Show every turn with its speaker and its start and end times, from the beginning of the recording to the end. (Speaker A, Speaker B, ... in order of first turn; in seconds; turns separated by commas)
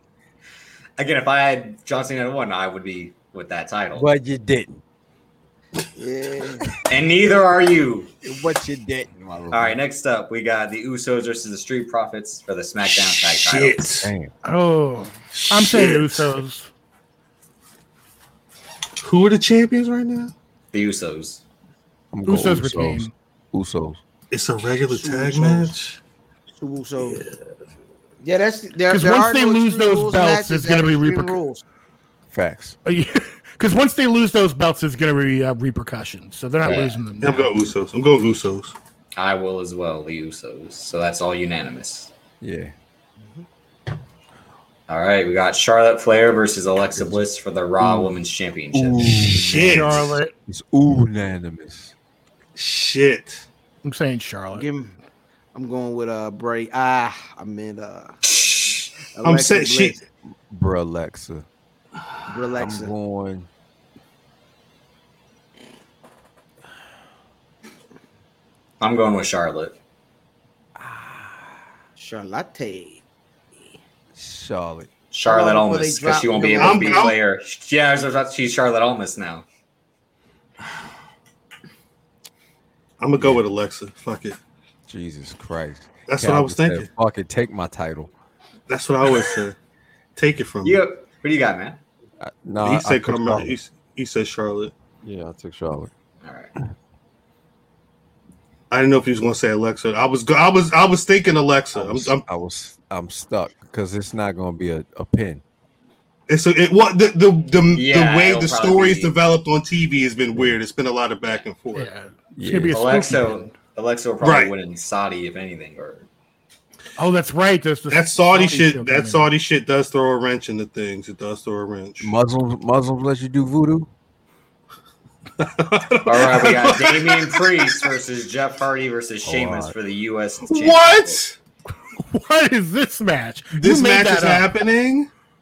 Speaker A: 1.0-4.1, Speaker B: 3.9-4.8, Speaker C: 6.0-6.7, Speaker A: 6.9-8.1, Speaker B: 8.2-9.8, Speaker A: 9.5-14.0, Speaker D: 12.9-14.1, Speaker B: 14.0-14.3, Speaker E: 14.4-16.7, Speaker D: 15.3-16.3, Speaker D: 19.0-20.3, Speaker A: 20.7-21.4, Speaker B: 22.1-24.0, Speaker E: 22.3-23.1, Speaker D: 24.3-26.0, Speaker C: 24.9-25.7, Speaker C: 26.6-27.2, Speaker D: 27.0-27.3, Speaker C: 28.2-31.6, Speaker E: 28.9-31.4, Speaker B: 32.3-32.8, Speaker E: 32.9-37.5, Speaker A: 36.6-37.0, Speaker D: 37.2-38.7, Speaker A: 39.1-42.1, Speaker B: 42.4-42.7, Speaker C: 43.2-43.4, Speaker A: 44.9-49.4, Speaker B: 46.9-47.2, Speaker B: 47.8-48.1, Speaker B: 48.7-51.9, Speaker D: 49.4-50.1, Speaker E: 49.6-50.3, Speaker D: 52.6-53.4, Speaker E: 53.8-54.7, Speaker C: 54.5-54.9, Speaker C: 55.5-58.1, Speaker A: 58.3-58.9, Speaker C: 59.1-60.0, Speaker D: 59.2-60.0, Speaker B: 60.2-61.5, Speaker C: 62.3-62.9, Speaker B: 62.6-63.5, Speaker A: 68.8-69.8, Speaker B: 70.8-71.6, Speaker C: 72.0-73.0, Speaker B: 74.2-74.9, Speaker A: 75.1-79.4, Speaker C: 75.2-77.1, Speaker D: 76.5-77.2, Speaker D: 83.0-84.4, Speaker B: 84.9-88.1, Speaker D: 86.1-86.9, Speaker D: 88.7-89.6, Speaker D: 90.2-90.8, Speaker A: 90.6-91.8, Speaker B: 92.2-93.5, Speaker D: 92.6-94.7, Speaker B: 95.0-95.9, Speaker A: 96.2-96.5, Speaker D: 98.7-102.2, Speaker B: 101.7-105.4, Speaker D: 106.3-111.9, Speaker A: 107.7-109.2, Speaker E: 111.7-113.5, Speaker B: 112.3-112.8, Speaker A: 112.7-116.1, Speaker D: 114.2-114.5, Speaker E: 117.0-119.3, Speaker D: 117.9-122.1, Speaker B: 122.0-123.9, Speaker D: 125.4-127.8, Speaker A: 126.1-131.2, Speaker B: 129.2-129.7, Speaker D: 130.4-131.4, Speaker E: 132.1-134.5, Speaker D: 133.5-135.1